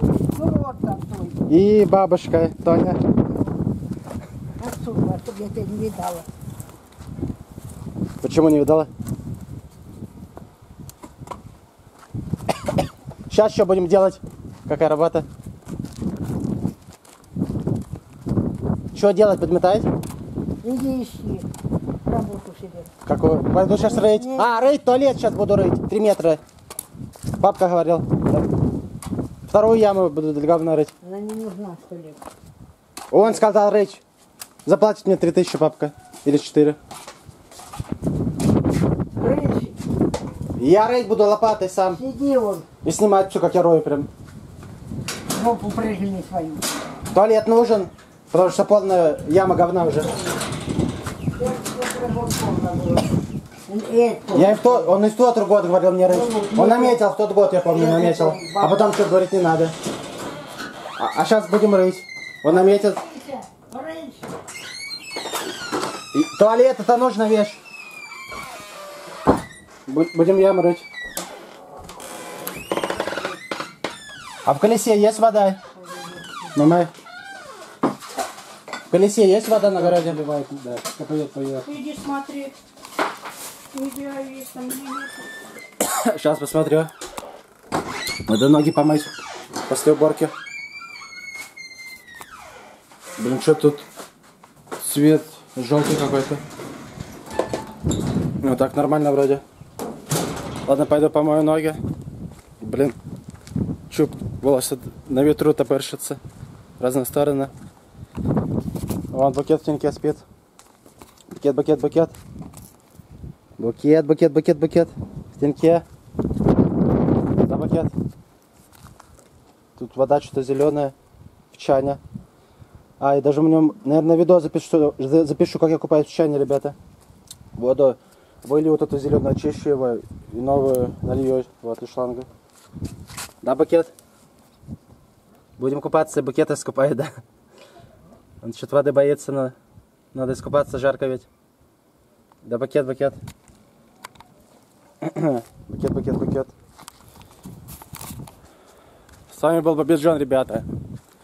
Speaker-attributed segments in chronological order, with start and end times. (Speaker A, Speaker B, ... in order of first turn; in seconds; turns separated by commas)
Speaker A: 0.3-1.5, Speaker B: 1.5-3.0, Speaker A: 4.6-6.3, Speaker B: 8.2-8.9, Speaker B: 13.3-15.3, Speaker B: 18.9-19.9, Speaker A: 20.6-21.5, Speaker A: 22.0-22.9, Speaker B: 23.1-26.4, Speaker A: 23.7-24.6, Speaker B: 27.4-28.4, Speaker B: 29.5-30.9, Speaker A: 31.0-32.2, Speaker B: 33.1-34.0, Speaker B: 34.7-36.8, Speaker A: 39.2-39.8, Speaker B: 40.6-42.0, Speaker A: 41.9-42.7, Speaker B: 42.8-44.1, Speaker A: 45.3-46.7, Speaker B: 47.1-50.1, Speaker A: 51.4-53.2, Speaker A: 53.7-54.9, Speaker B: 54.3-59.7, Speaker A: 56.1-57.0, Speaker A: 57.7-58.8, Speaker B: 61.0-63.0, Speaker A: 62.5-64.3, Speaker B: 66.1-67.6, Speaker B: 69.9-70.8, Speaker B: 74.5-75.6, Speaker B: 76.5-76.9, Speaker B: 78.9-81.7, Speaker C: 81.7-82.5, Speaker C: 83.7-85.2, Speaker B: 85.8-86.9, Speaker B: 88.3-89.1, Speaker B: 89.7-90.3, Speaker B: 93.2-93.8, Speaker B: 94.8-96.4, Speaker B: 98.4-99.4, Speaker B: 100.7-101.8, Speaker B: 102.6-103.0, Speaker B: 103.9-106.2, Speaker B: 106.8-107.5, Speaker B: 109.1-110.2, Speaker B: 111.3-112.2, Speaker B: 113.6-115.8, Speaker B: 117.5-117.9, Speaker B: 119.8-120.9, Speaker B: 121.5-122.0, Speaker B: 123.0-126.8, Speaker B: 127.6-132.3, Speaker B: 133.4-133.9, Speaker B: 135.6-137.1, Speaker B: 138.4-139.6, Speaker B: 140.1-141.3, Speaker B: 142.4-143.2, Speaker B: 145.0-146.5, Speaker B: 149.3-150.7